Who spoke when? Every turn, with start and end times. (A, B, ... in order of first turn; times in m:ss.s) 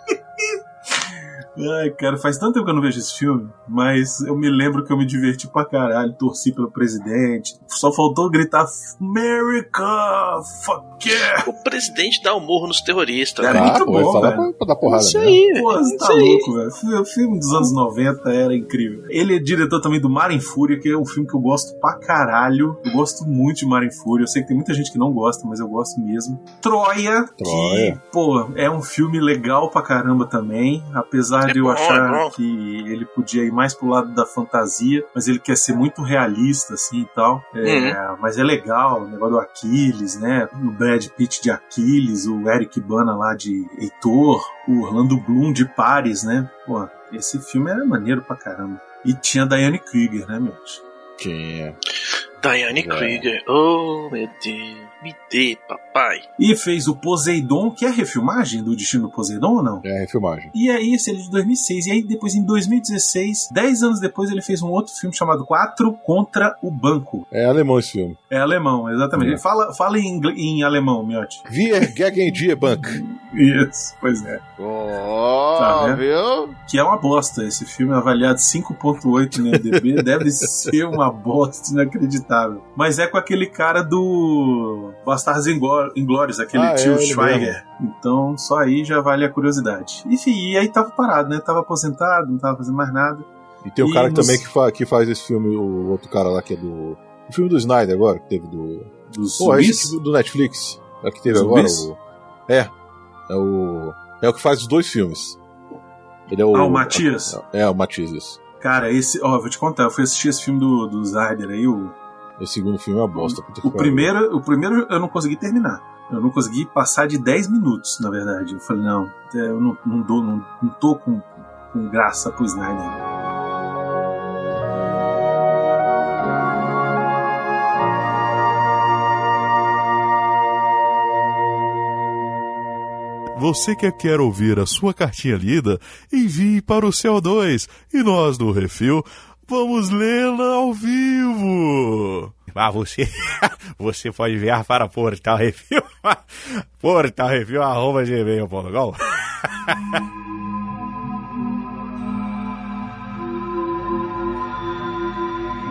0:00.1-0:11.5 A
0:11.4-0:13.8 B
0:13.4-0:14.5 A
0:13.4-0:15.4 C
0:14.8-0:16.5 B
0:15.5-0:50.8 A
0:27.4-0:28.0 C
0:31.4-0:32.3 B
0:37.6-0:38.0 B
0:51.2-0:51.8 C
0:52.4-0:56.2 B
0:52.8-0:53.3 C
0:56.4-0:59.8 A
0:59.8-1:00.5 C
1:00.5-1:07.3 A
1:07.3-1:08.2 C
1:08.3-1:11.4 A
1:09.1-1:09.4 C
1:11.5-1:13.0 C
1:12.8-1:14.4 A
1:14.6-1:16.6 D
1:15.6-1:16.0 A
1:16.6-1:33.3 A
1:19.5-1:20.5 C
1:26.5-1:27.6 C
1:33.6-1:42.7 C
1:33.8-1:34.4 A
1:39.1-1:39.9 A
1:41.3-1:41.9 A
1:43.3-1:45.4 C
1:46.3-1:48.4 C
1:46.5-1:47.4 A
1:48.6-1:52.0 A
1:52.4-1:54.1 C
1:53.2-2:03.0 A
2:13.4-2:15.8 E
2:16.4-2:17.0 E
2:17.6-2:19.0 E
2:19.5-2:19.9 E